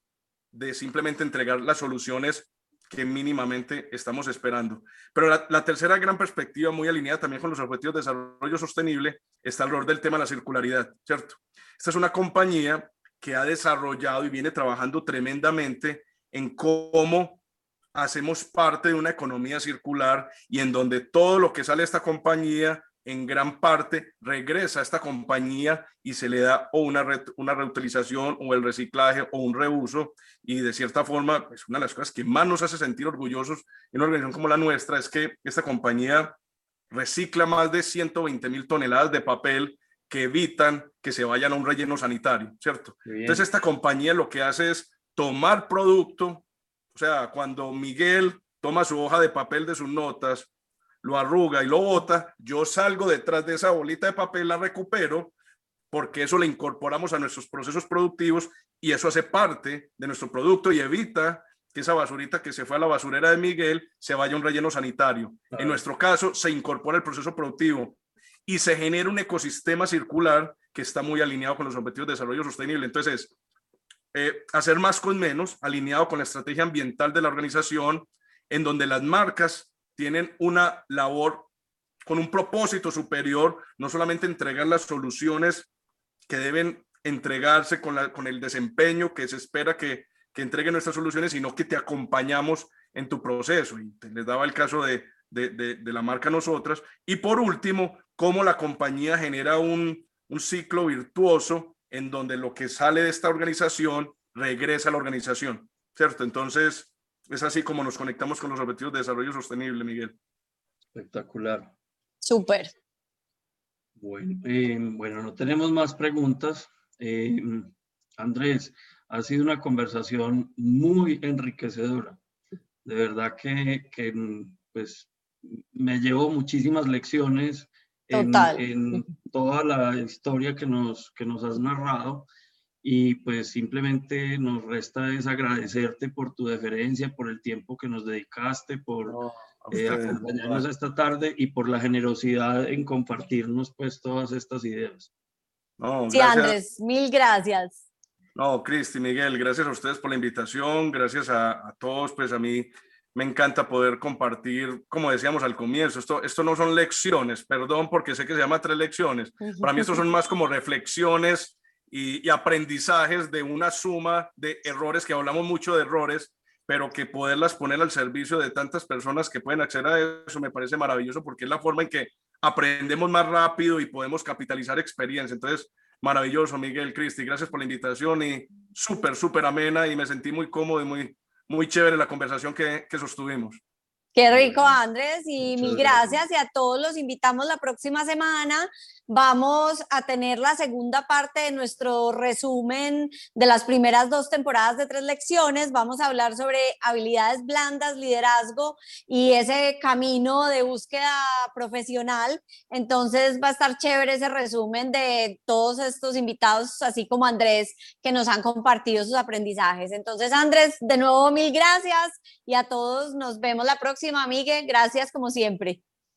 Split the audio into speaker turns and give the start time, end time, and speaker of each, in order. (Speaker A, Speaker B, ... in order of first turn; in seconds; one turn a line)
Speaker A: 0.5-17.4
Speaker A: 17.9-36.4
Speaker A: 36.9-50.5
Speaker B: 43.0-43.5
Speaker A: 51.0-55.4
Speaker A: 55.9-73.3
Speaker B: 65.5-65.8
Speaker A: 74.1-81.5
Speaker A: 82.0-85.7
Speaker A: 86.3-110.2
Speaker B: 111.0-111.7
Speaker C: 112.2-112.7
Speaker B: 114.0-122.2
Speaker B: 122.8-132.3
Speaker C: 128.1-128.6
Speaker B: 132.8-139.2
Speaker A: 139.1-140.7
Speaker B: 139.7-145.1
Speaker A: 145.8-146.6
Speaker C: 146.1-147.8
Speaker A: 148.4-183.6
Speaker C: 159.4-160.0
Speaker C: 184.2-215.8
Speaker B: 184.3-184.7
Speaker B: 185.4-186.1